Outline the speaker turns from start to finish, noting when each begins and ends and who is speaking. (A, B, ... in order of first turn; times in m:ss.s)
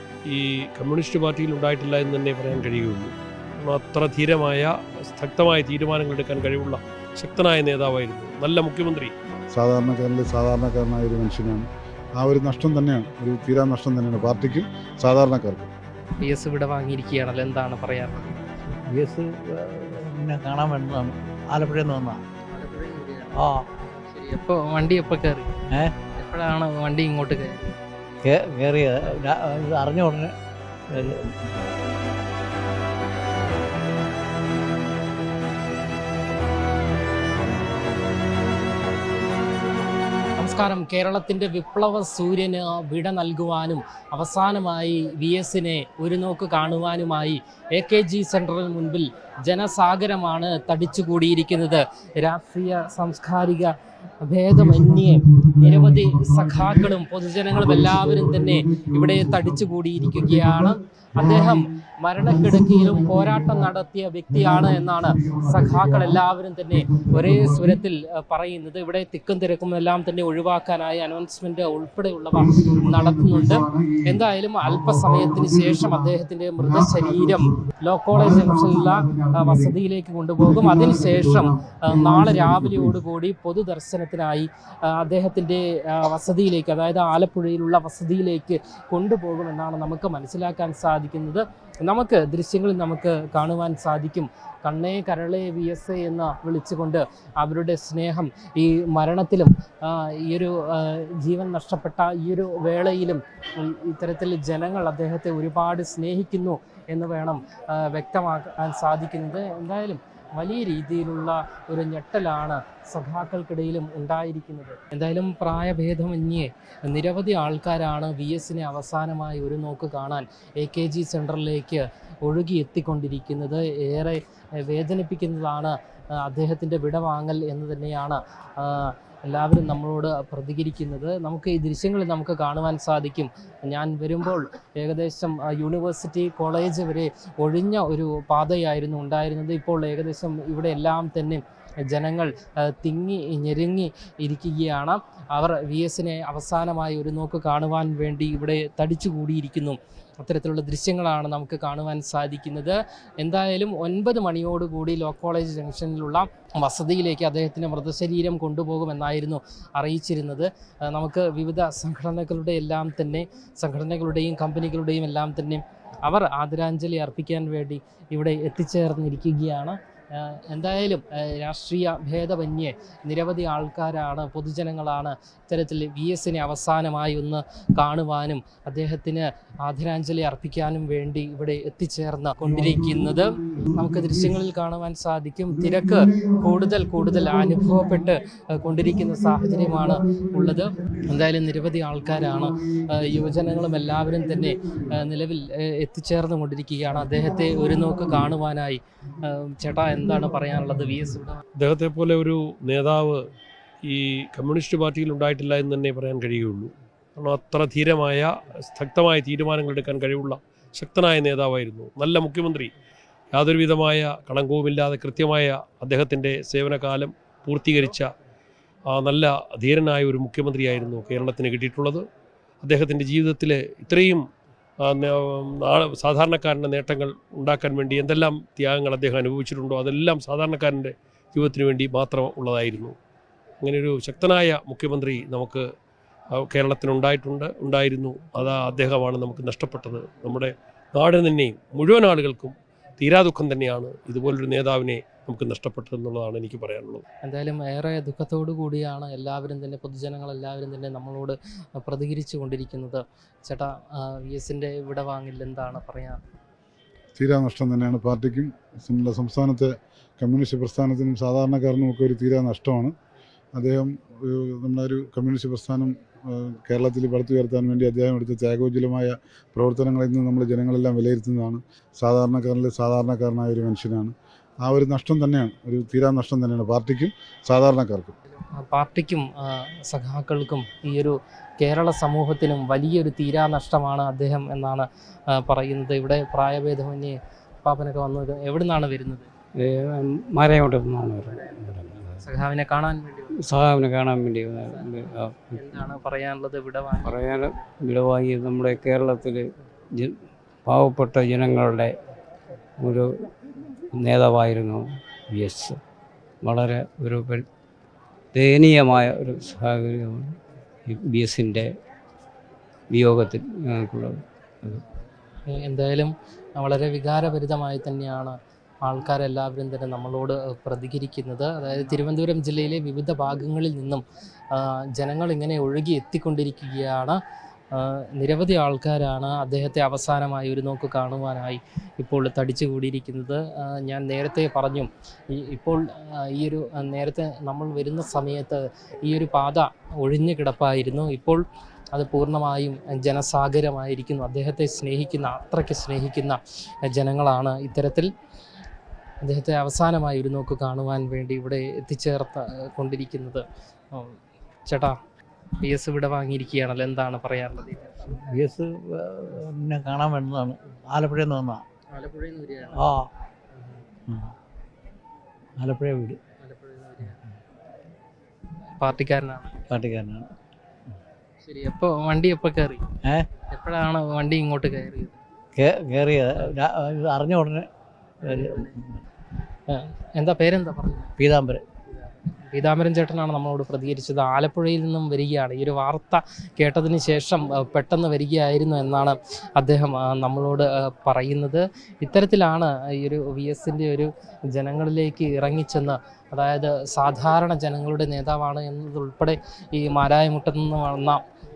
0:00.3-0:09.1 A
0:09.5-0:11.7 B
0:12.2-0:15.7 B
0:16.2-0:18.5 C
0:18.8-0:22.2 D
0:22.5-0:25.5 C
0:23.3-0:23.6 D
0:26.1-0:27.7 C
0:28.2-0:30.4 D
0:30.9-0:31.5 D
0:40.4-0:53.7 C
0:54.2-3:21.4 C
0:54.7-0:56.4 B
0:57.7-0:58.4 B
0:59.3-1:00.4 B
1:05.2-1:06.1 B
1:07.0-1:07.6 B
1:12.6-1:14.1 B
1:14.7-1:16.1 B
1:16.6-1:17.4 B
1:18.2-1:19.7 B
1:20.6-1:21.3 B
1:21.9-1:22.9 B
3:21.6-3:23.2 A
3:23.8-3:32.7 A
3:33.3-3:38.1 A
3:38.9-3:42.0 A
3:42.6-3:44.2 A
3:44.8-3:53.0 A
3:53.6-3:55.7 A
3:56.4-4:07.0 A
4:07.2-4:16.2 C
4:17.2-4:22.9 B
4:23.6-4:38.2 B
4:38.3-4:49.3 C
4:49.6-4:52.2 E
4:51.1-4:53.5 C
4:53.4-4:55.8 E
4:54.7-4:57.7 C
4:57.0-5:01.9 E
5:02.8-5:03.3 E
5:03.9-5:05.8 E
5:06.4-5:07.5 E
5:08.3-5:11.7 E
5:12.9-5:14.8 E
5:15.5-5:27.2 C
5:27.7-5:41.4 C
5:41.9-5:48.1 C
5:49.2-5:55.0 C
5:55.6-5:58.1 C
5:58.1-6:01.6 D
6:01.9-6:03.0 C
6:02.7-6:03.1 D
6:04.1-6:04.3 D
6:05.6-6:06.2 D
6:06.4-6:07.2 C
6:08.8-6:09.6 C
6:09.7-6:10.3 D
6:11.4-6:12.9 C
6:13.5-6:15.2 C
6:15.6-6:17.7 D
6:18.3-6:18.8 C
6:18.3-6:19.0 D
6:19.7-6:21.1 C
6:21.2-6:21.6 D
6:22.1-6:41.2 C